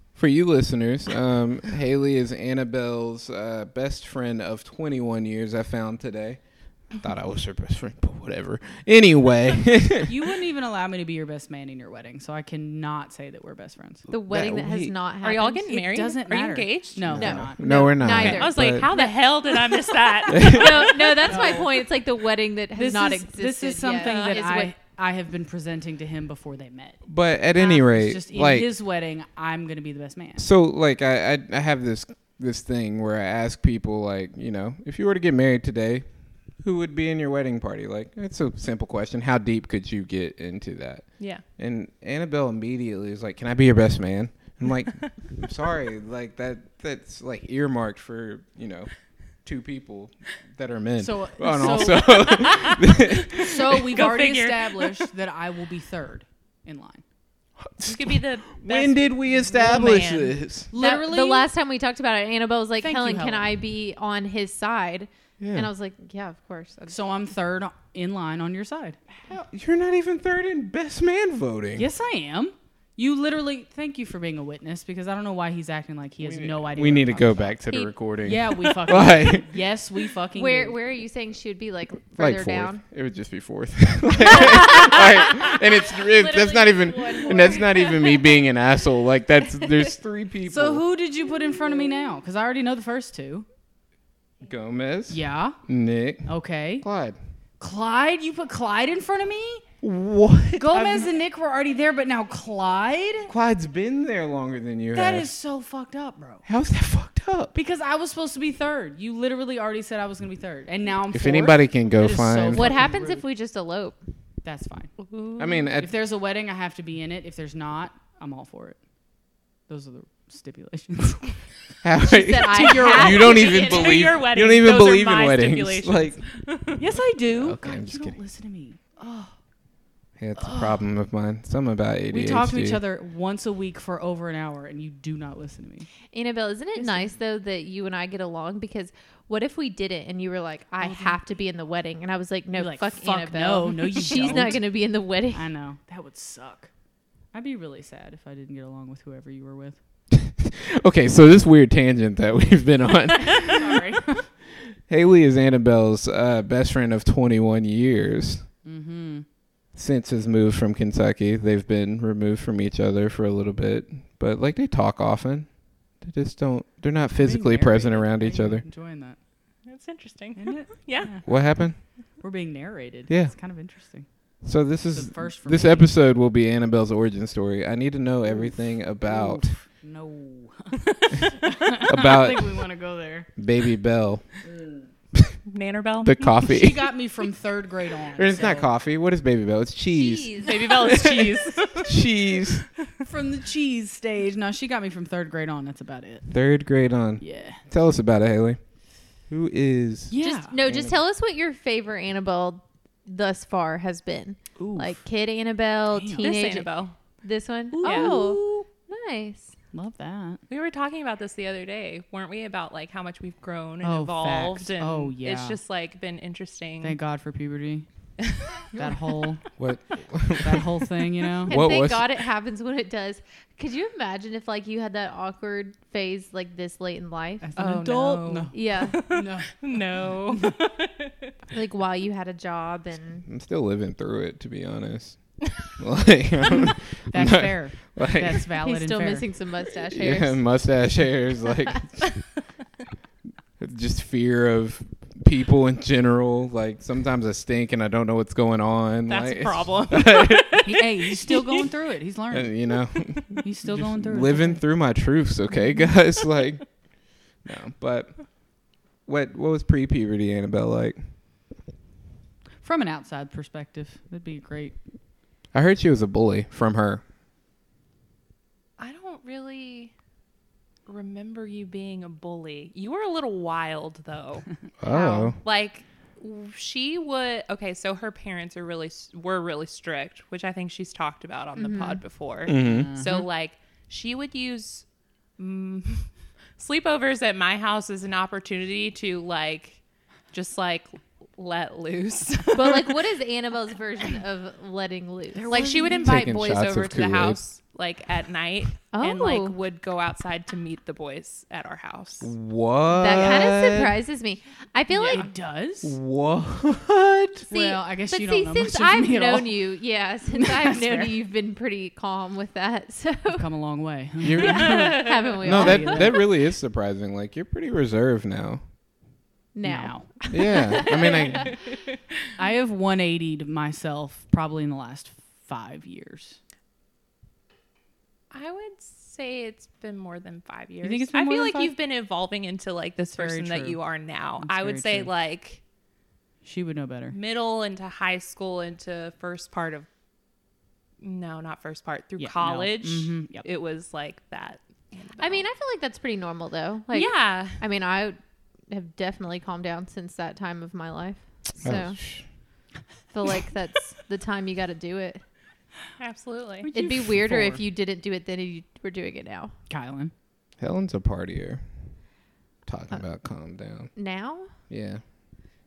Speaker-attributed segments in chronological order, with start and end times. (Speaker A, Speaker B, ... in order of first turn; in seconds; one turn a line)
Speaker A: 0.2-10.2
Speaker B: 10.0-14.1
Speaker C: 14.1-15.7
Speaker A: 14.3-14.9
Speaker D: 15.2-17.1
Speaker B: 15.7-17.6
Speaker A: 17.0-18.9
Speaker C: 17.1-24.7
Speaker D: 18.1-21.6
Speaker A: 20.3-20.6
Speaker B: 21.3-21.7
Speaker B: 22.7-27.0
Speaker D: 24.0-24.7
Speaker A: 27.1-28.7
Speaker B: 27.6-30.5
Speaker A: 30.4-36.0
Speaker A: 36.6-53.8
Speaker B: 51.0-52.4
Speaker D: 52.0-55.1
Speaker B: 53.4-57.0
Speaker A: 57.6-60.7
Speaker D: 57.8-60.4
Speaker B: 60.7-61.5
Speaker C: 60.8-67.0
Speaker B: 62.8-63.5
Speaker A: 65.4-65.7
Speaker B: 66.9-69.0
Speaker A: 69.3-71.9
Speaker B: 71.8-77.6
Speaker A: 76.2-79.5
Speaker B: 78.2-80.8
Speaker C: 80.3-82.8
Speaker A: 82.1-90.8
Speaker C: 84.3-88.4
Speaker C: 89.6-89.9
Speaker B: 90.5-93.5
Speaker A: 94.4-97.2
Speaker B: 95.1-95.6
Speaker B: 96.2-96.8
Speaker B: 97.6-99.6
Speaker A: 99.8-101.1
Speaker B: 100.6-103.3
Speaker A: 103.2-105.3
Speaker B: 104.9-106.4
Speaker A: 106.4-107.5
Speaker B: 107.5-113.2
Speaker A: 111.1-112.7
Speaker C: 112.5-114.0
Speaker B: 114.4-114.9
Speaker D: 115.0-115.6
Speaker A: 115.4-115.9
Speaker B: 115.8-118.8
Speaker B: 119.7-121.4
Speaker A: 121.8-126.2
Speaker C: 122.0-124.0
Speaker B: 122.6-123.2
Speaker D: 123.2-126.9
Speaker B: 126.8-129.3
Speaker A: 127.3-128.2
Speaker A: 130.2-132.8
Speaker B: 130.4-130.8
Speaker B: 132.1-135.9
Speaker C: 136.1-145.5
Speaker B: 136.8-137.1
Speaker B: 140.8-141.2
Speaker B: 142.5-146.7
Speaker B: 147.3-149.8
Speaker A: 150.1-153.8
Speaker B: 153.4-154.2
Speaker A: 154.6-158.4
Speaker B: 158.6-159.2
Speaker A: 159.7-168.6
Speaker B: 167.1-169.2
Speaker D: 169.7-171.1
Speaker B: 170.3-174.1
Speaker A: 171.2-171.8
Speaker A: 173.1-173.3
Speaker A: 174.4-179.5
Speaker B: 174.9-175.9
Speaker B: 178.3-183.3
Speaker A: 181.8-182.7
Speaker A: 183.4-184.4
Speaker D: 185.5-186.2
Speaker A: 186.0-186.9
Speaker B: 186.5-188.7
Speaker A: 188.2-192.6
Speaker C: 189.9-190.6
Speaker D: 190.4-192.0
Speaker B: 193.0-196.3
Speaker A: 196.3-198.6
Speaker B: 197.2-197.6
Speaker A: 199.3-201.0
Speaker B: 200.1-200.5
Speaker C: 200.2-209.5
Speaker B: 204.6-205.0
Speaker B: 205.9-206.3
Speaker D: 206.2-206.9
Speaker B: 207.7-208.7
Speaker D: 207.8-208.2
Speaker B: 209.7-210.4
Speaker D: 210.5-217.0
Speaker B: 213.8-215.6
Speaker B: 216.8-217.9
Speaker D: 218.2-218.7
Speaker B: 218.8-219.5
Speaker A: 219.6-220.7
Speaker B: 220.4-221.6
Speaker A: 221.5-222.1
Speaker C: 221.5-227.5
Speaker B: 227.4-229.6
Speaker D: 227.6-231.3
Speaker C: 228.5-229.0
Speaker C: 231.5-233.2
Speaker A: 233.3-238.4
Speaker B: 237.1-239.2
Speaker C: 238.6-240.4
Speaker A: 239.9-242.1
Speaker A: 243.6-250.7
Speaker D: 249.1-251.6
Speaker B: 250.6-252.5
Speaker A: 252.3-256.8
Speaker B: 253.4-254.6
Speaker A: 257.4-258.4
Speaker A: 259.1-261.1
Speaker B: 262.6-264.8
Speaker A: 265.5-267.0
Speaker D: 268.8-269.9
Speaker D: 270.9-284.9
Speaker A: 274.8-275.4
Speaker C: 281.6-282.0
Speaker A: 282.4-282.9
Speaker B: 282.6-283.2
Speaker D: 285.4-289.8
Speaker D: 290.3-293.1
Speaker C: 292.5-295.8
Speaker B: 295.3-296.1
Speaker D: 295.5-302.3
Speaker A: 296.0-297.4
Speaker C: 298.9-299.5
Speaker A: 302.2-304.0
Speaker C: 302.9-305.3
Speaker B: 304.9-306.0
Speaker A: 305.8-307.5
Speaker B: 307.4-309.6
Speaker C: 307.5-313.5
Speaker B: 310.3-311.1
Speaker B: 313.4-316.1
Speaker A: 314.2-318.6
Speaker C: 314.4-316.2
Speaker D: 314.4-315.4
Speaker C: 319.5-321.6
Speaker B: 319.6-320.1
Speaker A: 320.3-321.5
Speaker B: 322.4-326.4
Speaker D: 328.3-335.6
Speaker B: 330.8-331.7
Speaker B: 333.1-333.8
Speaker B: 334.4-335.1
Speaker B: 336.4-337.2
Speaker D: 337.1-339.9
Speaker D: 341.0-345.4
Speaker B: 342.2-343.4
Speaker C: 345.2-352.0
Speaker D: 346.9-347.6
Speaker A: 351.6-352.2
Speaker C: 353.1-355.2
Speaker D: 356.0-356.7
Speaker B: 356.6-357.6
Speaker C: 356.7-359.5
Speaker B: 359.7-360.1
Speaker A: 360.6-361.9
Speaker A: 362.7-363.9
Speaker C: 363.9-364.5
Speaker A: 364.7-365.0